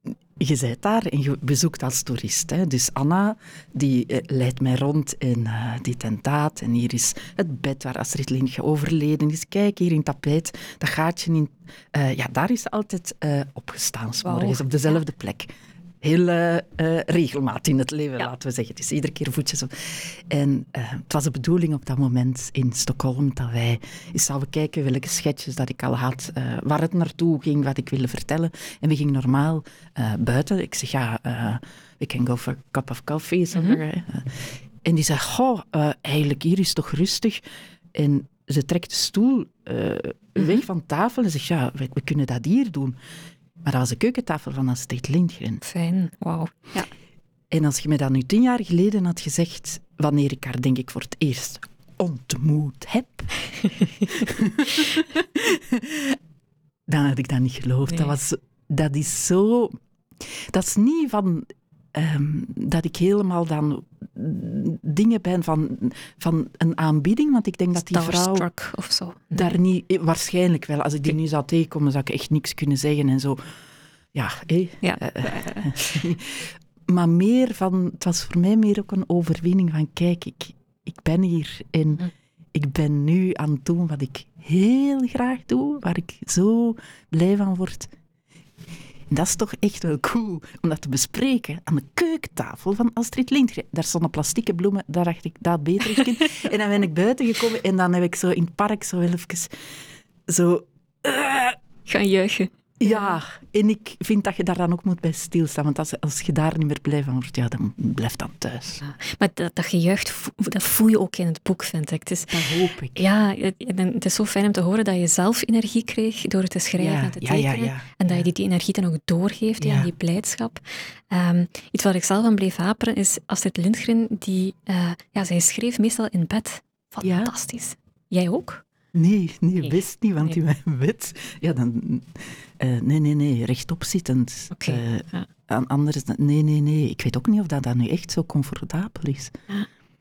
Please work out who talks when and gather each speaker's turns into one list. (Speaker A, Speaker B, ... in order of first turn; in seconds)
Speaker A: 0.4-15.5, 16.0-37.4, 38.0-43.0, 43.6-45.6, 47.5-53.4, 54.1-56.2, 56.9-59.8, 60.5-68.5, 69.3-73.4, 74.1-87.9, 89.1-99.5, 100.3-101.6, 102.8-108.8, 112.3-113.1, 116.8-118.3, 119.6-119.9, 127.0-127.3, 128.9-139.3
Speaker B: 14.2-15.0, 33.5-33.8, 45.6-46.9, 57.9-58.1, 67.8-69.5, 74.8-76.0, 101.9-103.2, 108.8-128.7, 129.6-130.4, 134.5-135.3